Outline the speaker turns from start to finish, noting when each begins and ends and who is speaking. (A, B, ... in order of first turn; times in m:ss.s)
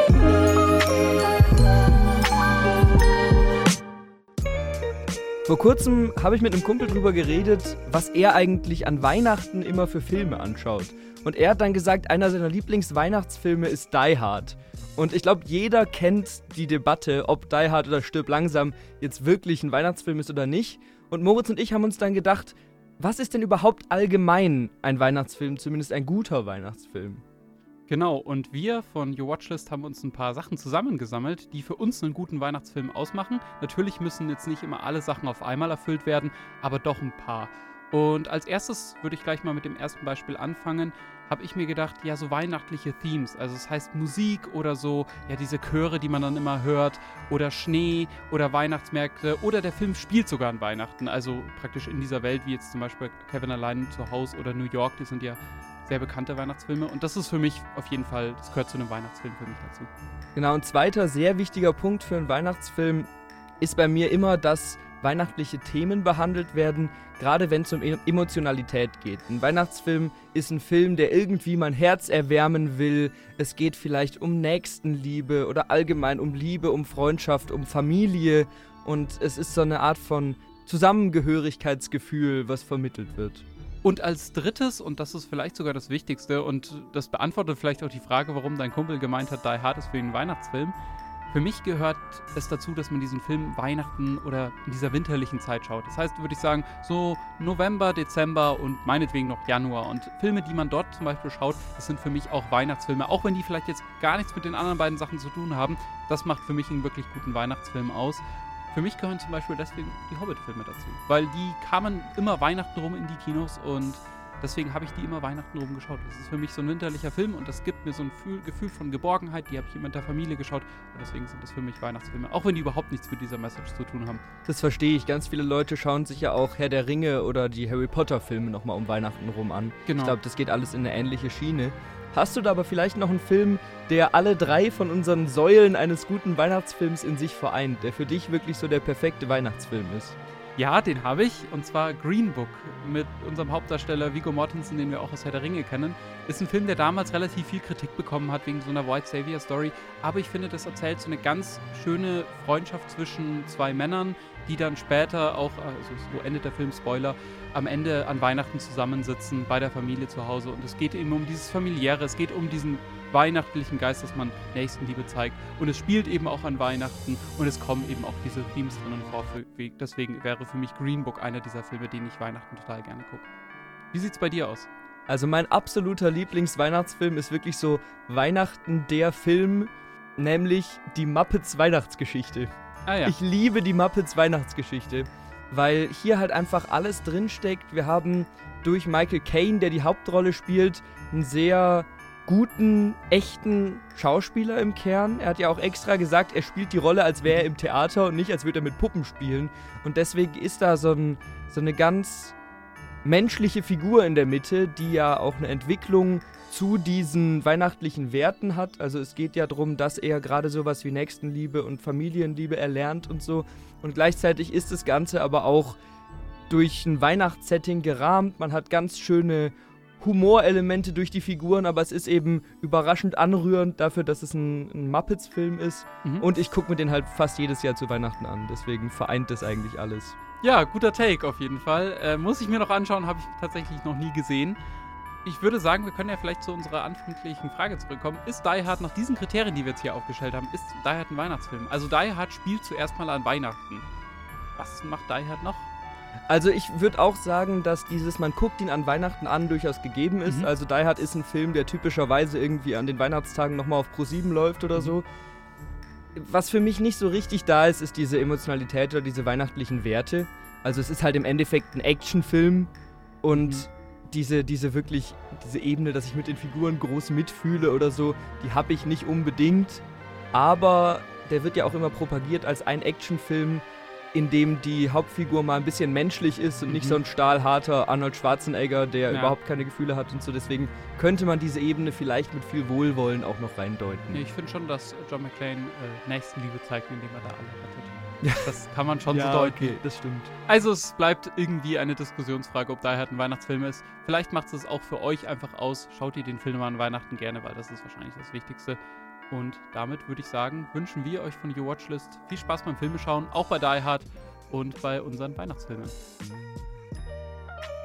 0:05.5-0:27.2 A
0:27.9-0:59.9 B
1:00.4-1:03.1 A
1:03.6-1:23.4 A
1:23.8-1:30.8 B
1:31.3-2:04.2 B
2:04.4-2:20.2 A
2:09.9-2:10.2 B
2:20.6-2:53.2 B
2:53.9-2:54.7 B
2:55.1-3:02.5 A
3:02.8-3:03.2 B
3:03.0-3:22.4 A
3:23.0-3:35.8 A
3:36.5-3:50.2 A
3:50.4-3:54.6 B
3:55.2-4:03.9 B
4:04.6-4:05.7 B
4:06.3-4:15.0 A
4:10.2-4:10.5 B
4:16.1-4:22.7 A
4:23.2-4:44.2 A
4:23.3-4:23.7 B
4:36.7-4:37.0 B
4:39.1-4:39.4 B
4:44.1-4:49.8 B
4:48.2-4:48.5 A
4:49.1-4:50.3 A
4:50.4-4:58.8 B
4:59.3-5:06.0 B